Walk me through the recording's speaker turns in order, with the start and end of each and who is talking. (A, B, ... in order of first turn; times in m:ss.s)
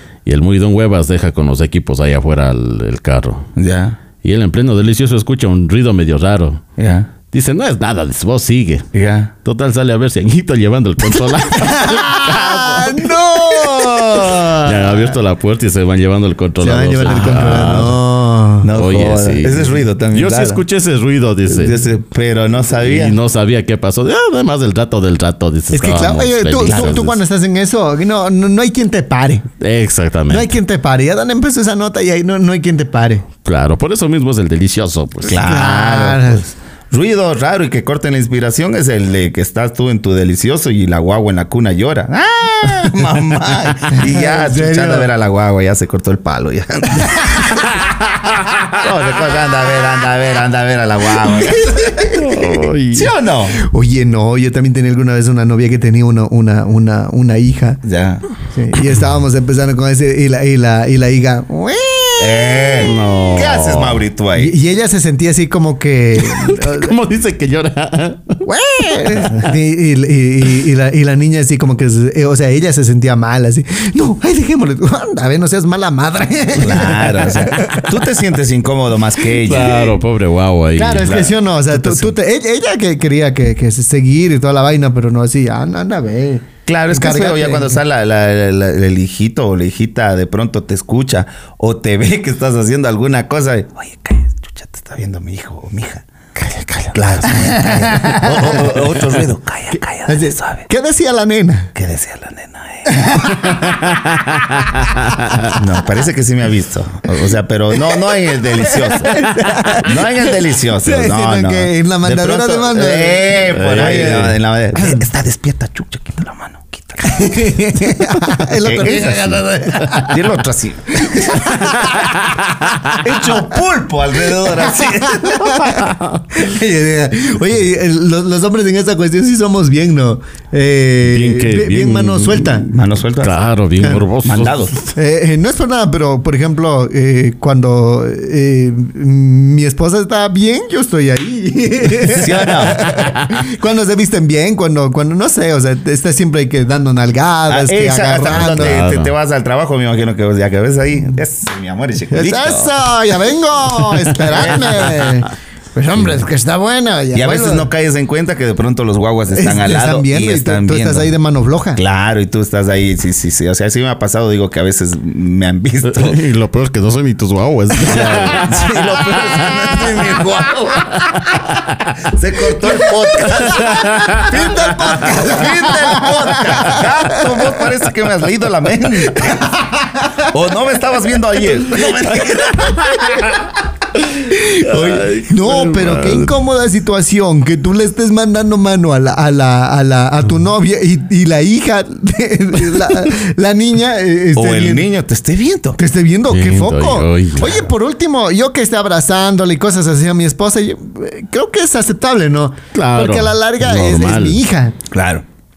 0:00.2-0:03.5 A
0:03.6-0:04.0 B
0:04.2-0:06.6 A
0:06.8-0:07.1 B
0:07.3-0:08.9 A
0:08.9-0:09.3 B
0:09.4-0:18.0 A
0:11.6-0:15.1 C
0:16.6-0:18.7 C
0:18.6-0:20.6 B
0:18.7-0:21.8 A
0:21.5-0:23.2 B
0:22.8-0:27.1 A
0:25.7-0:29.5 C
0:26.6-0:27.1 B
0:29.6-0:30.5 A
0:30.3-0:33.2 C
0:33.4-0:35.5 A
0:35.2-0:47.6 B
0:35.4-0:36.4 C
0:43.9-0:45.1 C
0:48.7-0:53.6 B
0:51.5-0:52.2 C
0:52.1-0:53.1 A
0:53.6-0:57.8 C
0:57.8-0:58.2 B
0:58.5-1:02.9 C
1:02.2-1:04.5 B
1:02.8-1:04.0 A
1:04.4-1:06.9 C
1:06.2-1:09.5 A
1:08.4-1:17.9 C
1:16.6-1:20.0 B
1:19.3-1:21.2 A
1:20.8-1:27.8 C
1:21.0-1:22.1 B
1:26.7-1:36.0 B
1:36.5-1:36.9 A
1:36.9-1:40.7 B
1:37.3-1:38.9 C
1:40.0-1:41.7 C
1:41.7-1:43.2 B
1:42.8-1:43.6 C
1:43.5-1:44.4 A
1:45.1-1:45.5 A
1:45.5-1:57.3 B
1:48.6-1:50.0 C
1:50.8-1:55.0 C
1:53.5-1:54.2 A
1:57.0-2:00.2 C
1:58.6-2:01.4 B
2:01.0-2:02.2 C
2:02.1-2:02.8 A
2:03.0-2:05.9 B
2:04.8-2:05.6 C
2:06.3-2:12.7 C
2:11.0-2:12.7 A
2:12.7-2:13.4 B
2:13.2-2:14.9 A
2:14.2-2:14.8 B
2:14.9-2:28.8 C
2:22.0-2:23.0 B
2:27.5-2:32.8 B
2:28.3-2:29.1 A
2:32.1-2:37.7 C
2:34.2-2:35.2 B
2:37.1-2:41.1 B
2:39.3-2:41.8 C
2:41.8-2:46.2 B
2:45.8-2:49.7 A
2:47.9-2:51.2 B
2:52.0-2:59.5 B
2:52.7-2:57.6 C
2:53.4-2:54.3 A
2:58.9-3:00.3 C
3:00.2-3:02.9 B
3:01.8-3:02.2 C
3:02.1-3:03.4 A
3:02.7-3:03.4 C
3:04.1-3:14.9 C
3:04.6-3:06.3 A
3:14.3-3:15.8 B
3:15.8-3:24.8 C
3:16.3-3:17.5 A
3:22.7-3:24.4 A
3:24.9-3:25.2 B